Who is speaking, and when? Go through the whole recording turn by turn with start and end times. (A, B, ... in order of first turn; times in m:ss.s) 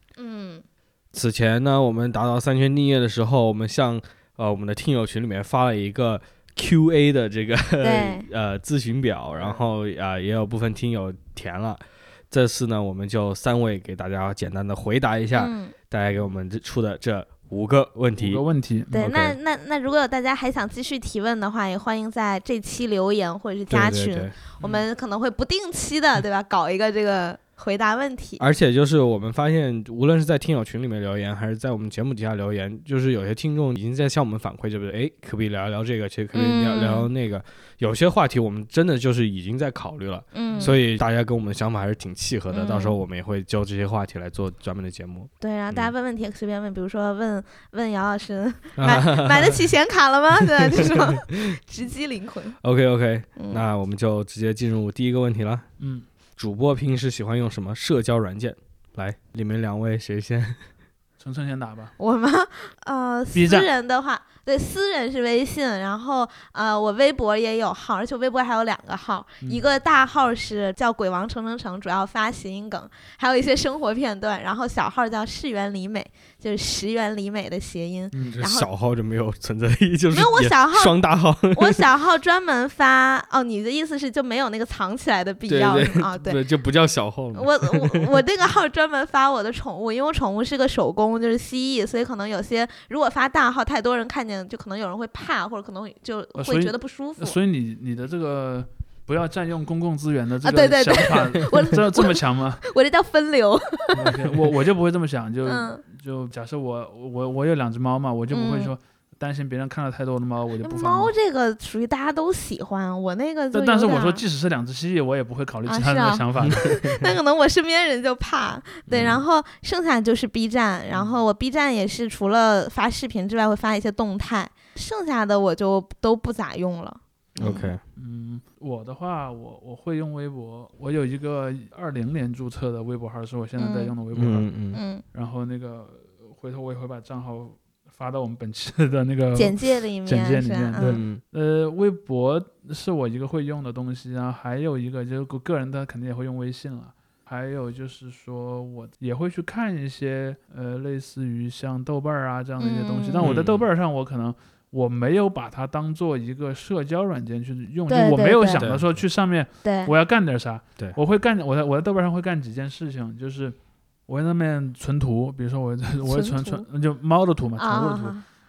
0:00.2-0:00.6 A
0:01.1-0:18.4 B
0:07.8-0:08.3 A
0:09.4-0:09.6 C
0:15.3-0:15.7 A
0:18.2-0:19.0 C
0:18.9-0:28.4 A
0:18.9-0:19.4 B
0:23.7-0:24.4 B
0:28.4-0:45.9 B
0:36.3-0:37.1 A
0:40.3-0:40.8 A
0:42.5-0:43.0 A
0:45.4-0:52.6 A
0:48.8-0:49.7 B
0:50.4-0:51.6 B
0:52.6-0:55.7 B
0:53.4-0:53.6 A
0:55.8-0:56.0 C
0:56.4-1:00.6 B
1:01.2-1:01.9 C
1:02.0-1:18.7 A
1:03.3-1:03.7 C
1:18.1-1:18.4 C
1:18.4-1:21.8 B
1:20.1-1:21.0 A
1:21.5-1:26.4 A
1:25.5-1:28.1 B
1:27.3-1:37.4 A
1:36.4-1:42.6 C
1:40.4-1:44.1 A
1:44.0-1:51.1 C
1:44.0-1:44.5 B
1:45.4-1:45.8 A
1:48.3-1:48.7 A
1:50.6-1:54.2 A
1:53.5-1:56.7 C
1:55.7-2:07.7 A
1:56.4-1:57.0 B
1:58.9-1:59.2 B
2:07.4-2:07.8 B
2:08.0-2:14.5 C
2:13.6-2:13.9 A
2:14.1-2:14.8 B
2:14.7-2:15.0 A
2:15.1-2:43.6 C
2:19.3-2:21.0 A
2:20.8-2:21.2 B
2:32.6-2:33.3 A
2:33.2-2:33.7 B
2:37.9-2:38.7 A
2:38.6-2:38.9 B
2:39.6-2:39.9 A
2:44.1-2:48.2 C
2:46.0-2:46.6 A
2:47.6-2:48.2 A